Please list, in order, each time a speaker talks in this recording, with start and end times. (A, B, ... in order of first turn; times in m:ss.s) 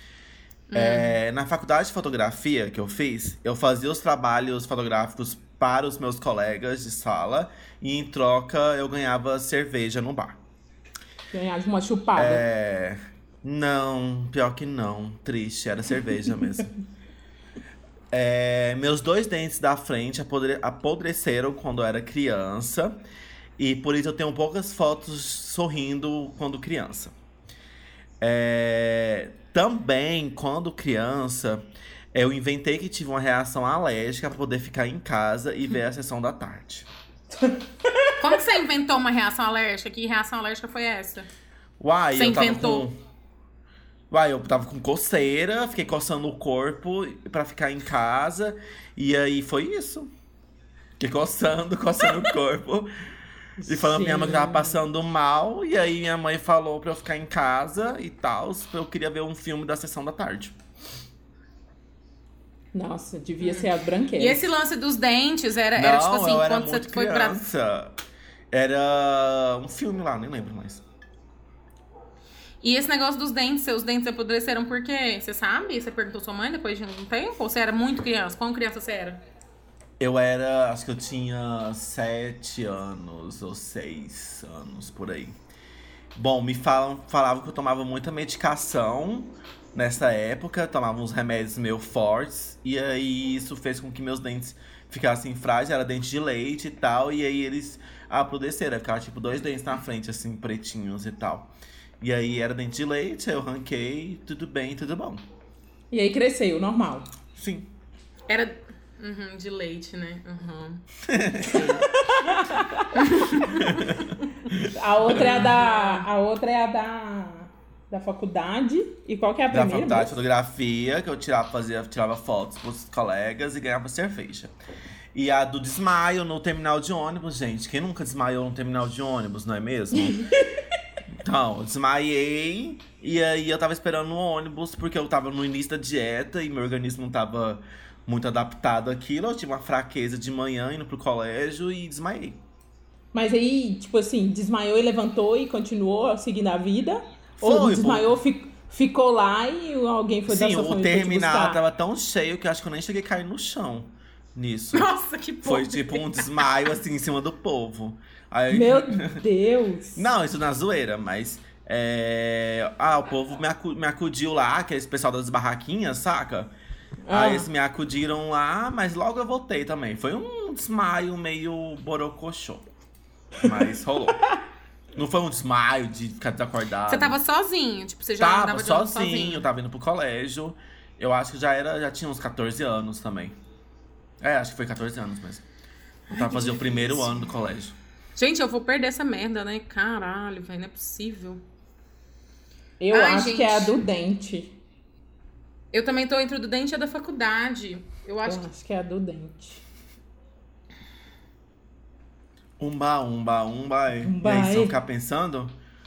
0:00.7-0:01.2 A
0:00.7-0:10.4 B
0:11.3-0:12.4 C
0:12.1-0:16.7 B
0:18.1-0:23.0 B
0:23.6-0:27.1 B
0:28.2-0:36.9 B
0:37.4-0:38.4 C
0:38.2-0:41.3 A
0:41.8-0:43.0 B
0:42.1-0:42.8 A
0:44.1-0:50.1 B
0:51.0-0:52.9 B
0:53.6-0:54.8 C
0:53.6-1:00.6 B
1:02.7-1:04.4 C
1:03.4-1:07.4 A
1:05.8-1:07.9 B
1:08.5-1:10.8 B
1:12.6-1:19.2 A
1:20.0-1:25.4 B
1:26.1-1:45.2 B
1:45.9-1:47.1 C
1:47.3-1:47.7 B
1:48.3-1:50.8 A
1:51.0-1:51.8 B
1:51.4-1:51.8 A
1:51.5-1:53.6 C
1:53.0-1:54.1 A
1:53.5-1:55.5 B
1:54.7-2:00.2 C
1:55.1-1:56.1 A
1:59.5-2:04.5 B
2:05.1-2:10.3 B
2:11.2-2:22.4 B
2:23.1-2:31.6 C
2:27.4-2:28.2 B
2:30.3-2:39.2 B
2:34.7-2:36.6 A
2:38.5-2:40.1 C
2:39.9-2:46.5 B
2:47.0-2:47.5 C
2:47.1-2:52.7 B
2:53.4-2:54.2 B
2:54.9-2:57.2 B
2:56.9-2:59.5 A
2:58.2-3:03.4 B
3:04.2-3:05.4 B
3:06.1-3:07.8 B
3:06.3-3:06.8 A
3:08.2-3:11.4 A
3:12.8-3:14.6 C
3:12.9-3:13.7 A
3:15.7-3:18.4 A
3:18.2-3:19.6 C
3:22.6-3:25.6 B
3:24.0-3:24.7 C